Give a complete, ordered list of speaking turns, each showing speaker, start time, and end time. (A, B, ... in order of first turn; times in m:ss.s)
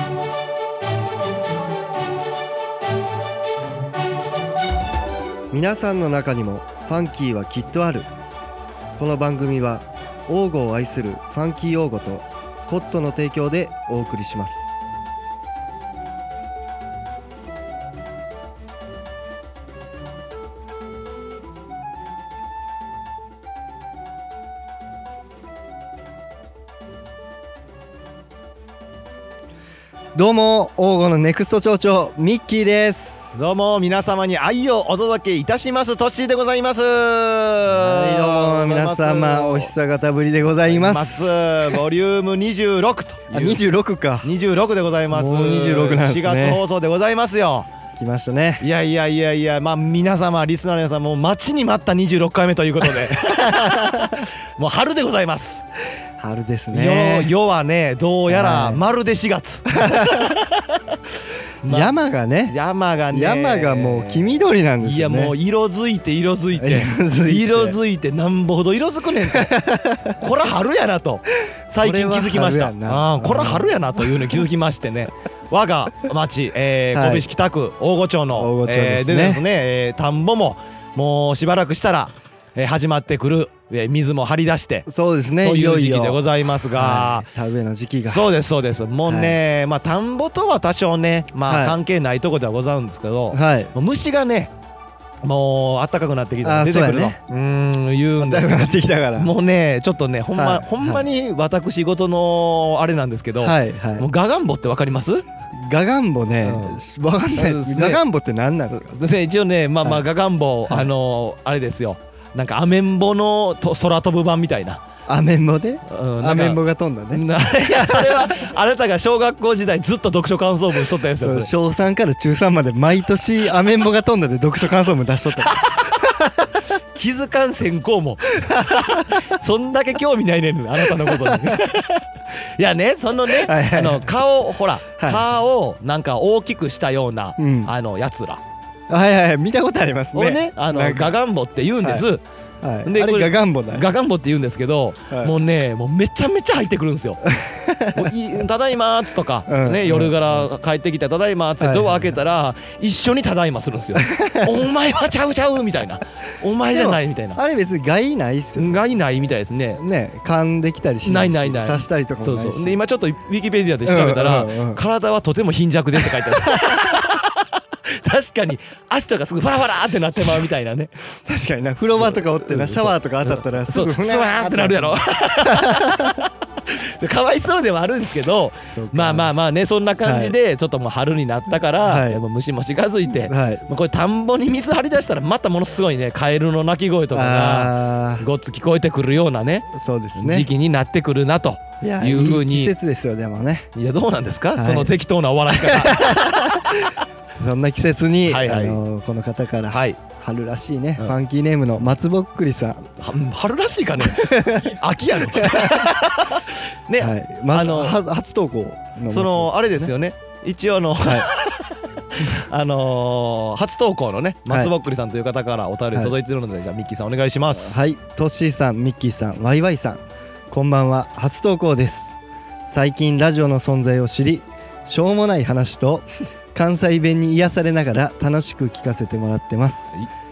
0:05.5-0:08.1 A
0:09.0-0:14.7 A
0:30.1-0:33.3 A
0:33.3-0:39.7 B
0:37.7-0:41.3 A
0:40.6-0:43.6 B
0:43.3-0:44.3 A
0:44.2-0:47.7 B
0:45.1-0:46.6 A
0:48.0-0:48.6 A
0:48.6-0:55.6 B
0:53.1-0:54.2 A
0:56.2-0:57.3 A
0:56.7-1:01.0 B
0:58.3-0:58.8 A
0:59.7-1:00.4 A
1:01.6-1:01.9 B
1:01.6-1:02.6 A
1:02.5-1:09.5 B
1:03.1-1:05.3 A
1:06.6-1:07.8 A
1:09.3-1:10.2 A
1:10.2-1:24.8 B
1:11.8-1:14.0 A
1:16.9-1:17.2 A
1:18.3-1:19.4 A
1:24.8-1:26.2 A
1:25.4-1:27.2 B
1:26.7-1:28.3 A
1:28.1-1:34.5 B
1:29.0-1:29.4 A
1:31.5-1:31.8 A
1:33.3-1:33.7 A
1:35.2-1:45.2 B
1:36.4-1:37.2 A
1:38.2-1:39.3 A
1:40.3-1:41.0 A
1:43.4-1:44.0 A
1:45.5-1:48.9 A
1:46.4-1:46.8 B
1:47.4-1:48.0 B
1:48.7-1:54.8 B
1:55.1-1:58.3 A
1:55.9-1:56.6 B
1:57.1-2:01.5 B
2:01.2-2:06.5 A
2:05.5-2:05.8 B
2:06.9-2:18.4 B
2:08.4-2:09.2 A
2:10.9-2:11.6 A
2:13.4-2:14.1 A
2:14.9-2:15.2 A
2:17.4-2:17.7 A
2:18.9-2:21.2 A
2:20.1-2:22.2 B
2:22.6-2:23.8 A
2:22.8-2:27.3 B
2:27.3-2:28.1 A
2:27.9-2:37.4 B
2:29.5-2:30.4 A
2:31.6-2:32.2 A
2:34.0-2:34.5 A
2:36.7-2:38.8 A
2:38.6-2:39.8 B
2:39.8-2:42.8 A
2:41.0-2:50.9 B
2:43.8-2:44.8 A
2:46.0-2:46.8 A
2:51.1-2:56.2 A
2:51.8-3:12.7 B
2:58.7-2:59.3 A
3:00.0-3:00.3 A
3:01.8-3:02.2 A
3:03.2-3:03.6 A
3:07.1-3:08.2 A
3:09.7-3:10.5 A
3:11.8-3:13.7 A
3:13.8-3:16.3 B
3:14.6-3:14.9 A
3:15.5-3:22.9 A
3:18.2-3:18.8 B
3:19.7-3:20.0 B
3:23.0-3:28.0 B
3:24.1-3:24.8 A
3:25.3-3:25.9 A
3:27.0-3:29.9 A
3:29.1-3:37.8 B
3:37.5-3:42.2 A
3:42.7-3:49.9 A